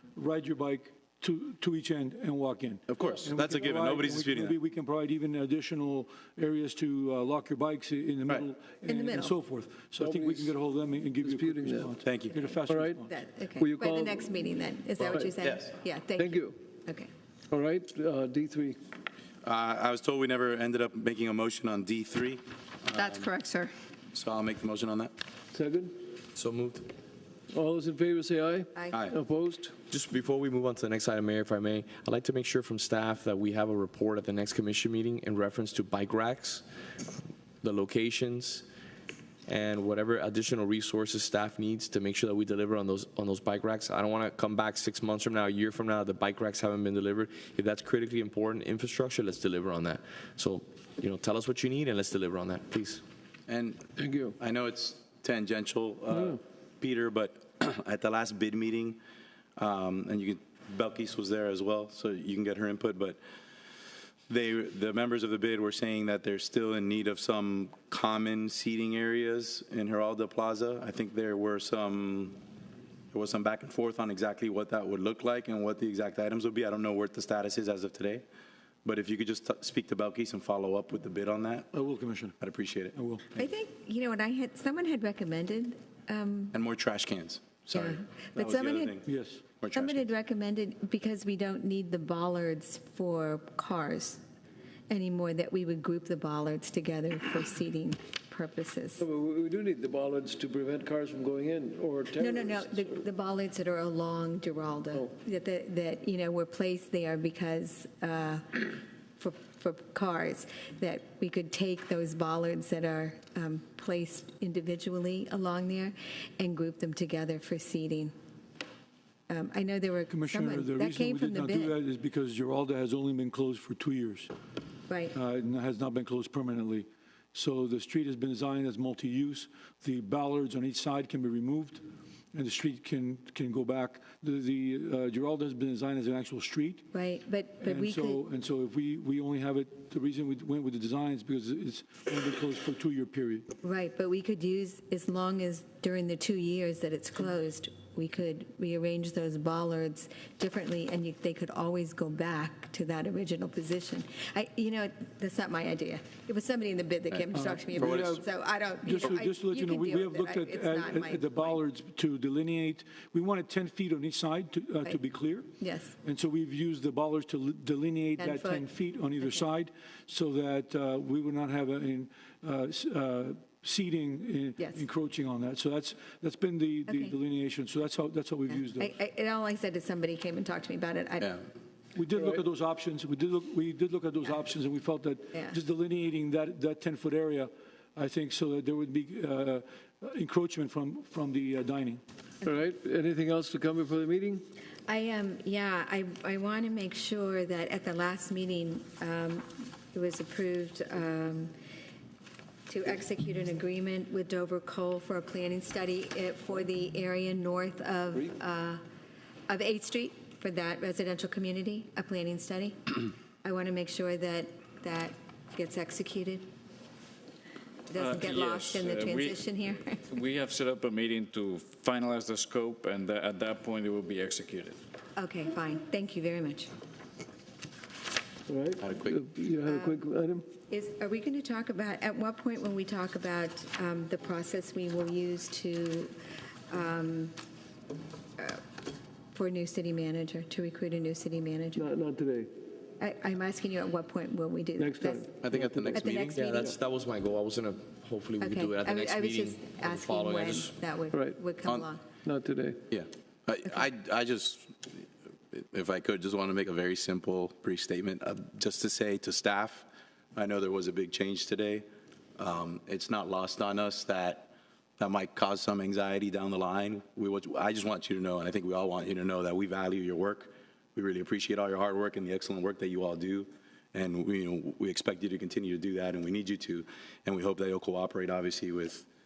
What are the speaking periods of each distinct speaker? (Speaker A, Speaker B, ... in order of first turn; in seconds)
Speaker A: 0.1-13.1, 81.7-82.4, 82.9-83.3, 89.0-89.4, 120.1-124.3, 125.1-131.8, 132.3-136.9, 137.6-143.5, 157.3-158.2, 158.8-165.5, 166.0-178.9, 181.9-192.0
Speaker B: 2.9-4.5, 12.0-12.4, 15.1-15.7, 19.4-23.3, 24.1-25.1, 53.5-53.8, 54.4-59.0, 59.6-63.2, 64.3-72.4, 73.1-78.2, 78.8-81.7, 82.4-83.0, 86.5-89.0, 89.6-90.1, 157.8-158.2, 228.8-229.2, 245.4-246.4, 252.9-261.9, 262.4-279.1
Speaker C: 8.9-9.3, 13.1-17.1, 22.9-23.7, 83.3-86.5, 87.7-89.0, 89.7-94.2, 94.9-99.0, 102.2-118.1, 119.3-121.7, 124.9-125.1, 136.9-138.2, 143.6-161.6, 165.6-165.9, 168.2-168.7, 169.2-169.4, 178.8-181.4, 194.9-201.5, 202.7-208.8, 209.5-216.4, 217.9-220.1, 225.2-226.7, 229.7-230.0, 230.7-236.1, 236.7-237.3, 239.3-241.9, 243.0-245.3, 245.9-246.7, 248.4-252.0
Speaker D: 10.0-10.5, 11.2-11.9, 12.7-13.0, 13.6-14.4, 16.1-16.6, 17.5-18.8, 25.5-25.9, 27.5-29.7, 54.0-54.3, 99.0-103.0, 192.4-194.4, 228.5-230.5, 241.7-242.5, 244.8-246.8, 251.1-251.4, 252.2-252.8
Speaker E: 26.3-26.9, 29.9-36.6, 37.6-38.6, 39.5-53.0, 246.1-250.7
Speaker F: 217.9-219.4, 220.1-224.8